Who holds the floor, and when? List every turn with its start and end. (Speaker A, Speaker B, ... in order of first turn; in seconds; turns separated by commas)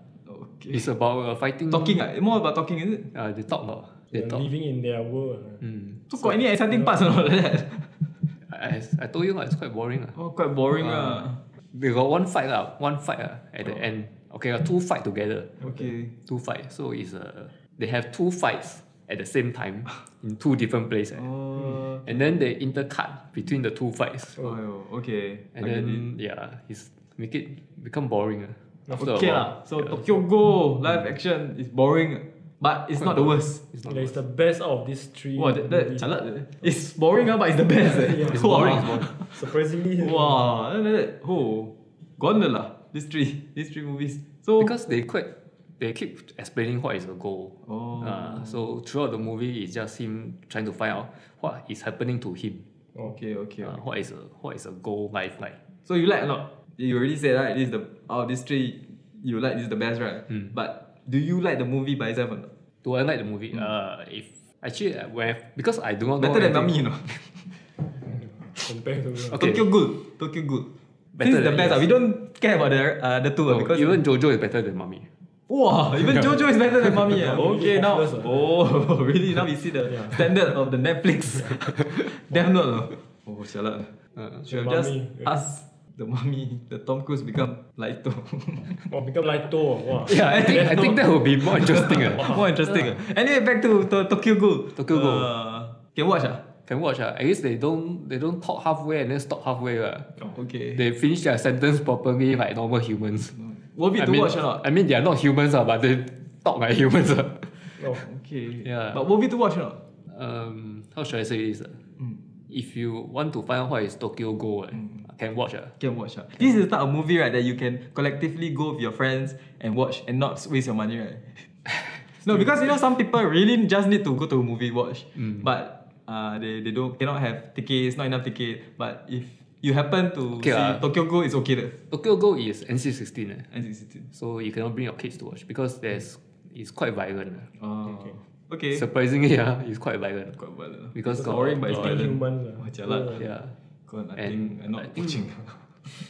Speaker A: 0.3-0.8, Speaker B: 0.7-2.0, Speaker A: 1.7-3.1, Speaker B: 3.1-4.5, Speaker C: 4.1-5.6, Speaker B: 5.6-6.0, Speaker A: 6.1-8.3, Speaker B: 8.4-10.2, Speaker A: 10.1-11.4, Speaker B: 10.8-15.6, Speaker A: 15.6-16.1, Speaker B: 16.1-21.3, Speaker A: 21.1-22.2, Speaker B: 21.9-24.4, Speaker A: 24.4-26.1, Speaker B: 25.5-30.0, Speaker A: 28.9-33.6, Speaker B: 33.0-34.2, Speaker C: 33.9-36.1, Speaker A: 35.4-44.7, Speaker C: 37.8-40.5, Speaker B: 38.2-39.1, Speaker B: 44.6-52.6, Speaker A: 47.6-48.6, Speaker A: 53.0-53.8, Speaker B: 53.6-55.6, Speaker A: 55.9-62.5, Speaker B: 62.8-66.8, Speaker A: 66.2-67.5, Speaker C: 68.1-69.5, Speaker B: 69.3-69.6, Speaker A: 69.3-70.7, Speaker B: 71.1-71.9, Speaker A: 71.2-74.0, Speaker B: 73.5-75.1, Speaker A: 75.5-83.9, Speaker B: 76.0-76.4, Speaker C: 77.2-78.3, Speaker C: 79.9-80.2, Speaker B: 84.2-84.4, Speaker A: 84.5-88.9, Speaker C: 84.5-85.3, Speaker C: 88.9-91.0, Speaker B: 90.0-92.9, Speaker A: 90.1-96.4, Speaker B: 94.7-95.3, Speaker B: 96.7-100.2, Speaker A: 100.3-100.8, Speaker B: 100.7-103.3, Speaker A: 103.4-104.6, Speaker B: 104.0-108.0, Speaker A: 107.9-109.8, Speaker B: 108.6-109.0, Speaker B: 110.1-111.8, Speaker B: 112.5-115.7, Speaker A: 115.8-121.5, Speaker A: 122.1-131.7, Speaker B: 130.3-130.8, Speaker B: 131.9-133.5, Speaker A: 133.5-134.1, Speaker B: 134.1-137.5, Speaker A: 137.6-138.8, Speaker B: 138.7-140.4, Speaker A: 140.3-143.2, Speaker B: 140.9-142.0, Speaker C: 141.1-143.2, Speaker B: 143.2-143.5, Speaker A: 143.9-145.6, Speaker B: 144.2-145.3